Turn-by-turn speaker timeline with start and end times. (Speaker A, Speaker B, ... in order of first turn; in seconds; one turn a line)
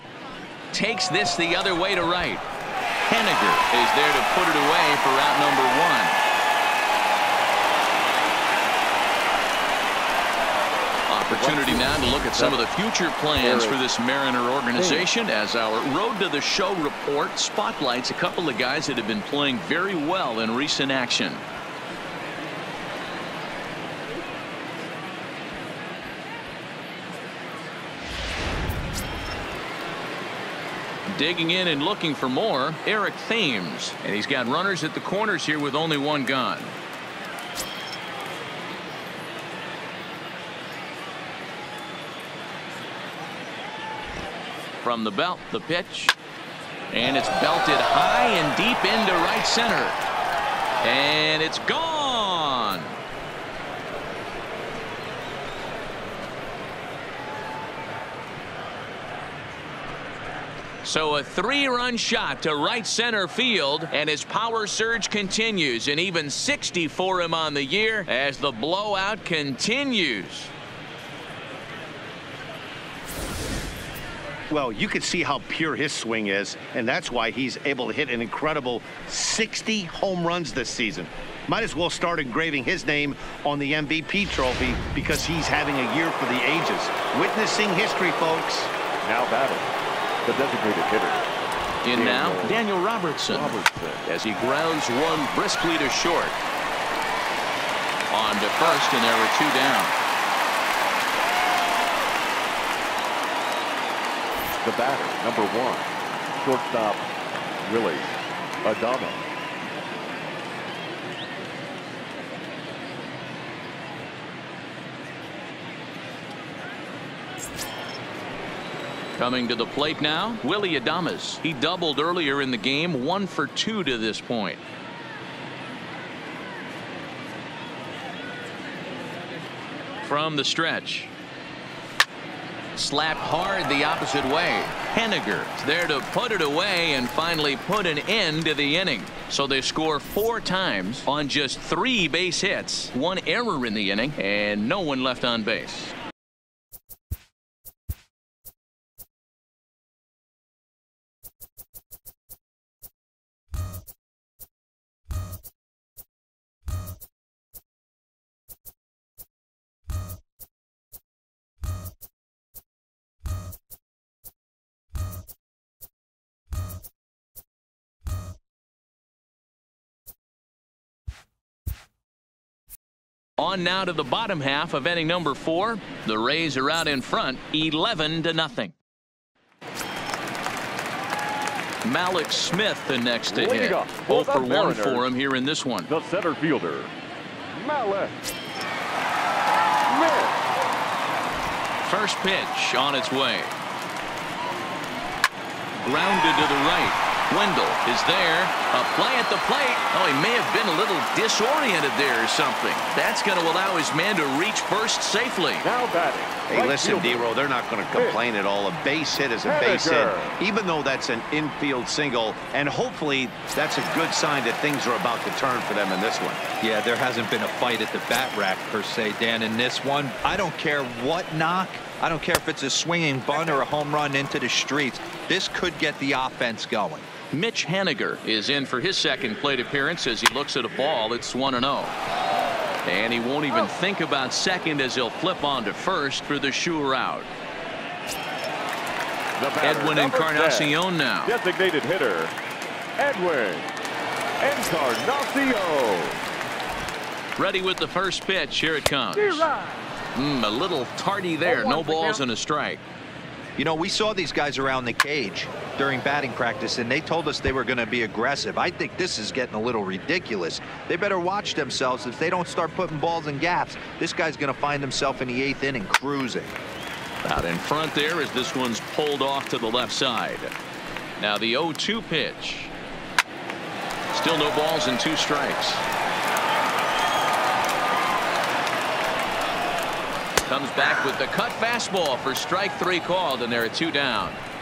Speaker A: 0.7-2.4
Speaker A: 3.1-6.2
Speaker A: 11.1-21.4
Speaker B: 11.3-12.7
Speaker B: 13.4-13.8
Speaker B: 14.8-15.1
Speaker A: 31.1-36.7
Speaker A: 44.8-46.1
Speaker A: 46.9-50.0
Speaker A: 50.8-53.0
Speaker A: 60.8-70.5
Speaker C: 74.5-88.7
Speaker B: 89.0-89.7
Speaker B: 90.2-91.3
Speaker A: 91.8-96.3
Speaker B: 91.9-92.6
Speaker B: 93.3-94.1
Speaker A: 98.1-99.9
Speaker B: 104.6-107.0
Speaker B: 107.6-109.2
Speaker A: 119.2-124.6
Speaker A: 130.0-131.1
Speaker A: 132.8-145.9
Speaker A: 173.4-178.7
Speaker A: 181.8-185.9
Speaker B: 183.3-185.1
Speaker B: 185.9-186.9
Speaker B: 187.5-188.2
Speaker B: 189.9-190.4
Speaker A: 191.8-193.5
Speaker A: 195.8-205.7
Speaker B: 205.6-207.3
Speaker C: 206.5-216.4
Speaker B: 207.9-208.2
Speaker B: 209.4-210.3
Speaker D: 216.6-227.1
Speaker A: 227.3-231.9
Speaker A: 232.8-237.3
Speaker B: 239.4-242.3
Speaker A: 239.6-241.3
Speaker B: 243.0-243.7
Speaker B: 244.4-246.2
Speaker A: 247.4-249.5
Speaker A: 250.1-252.8
Speaker D: 253.6-266.6
Speaker A: 267.2-270.5
Speaker A: 271.2-272.7
Speaker A: 274.1-275.9
Speaker A: 280.5-284.4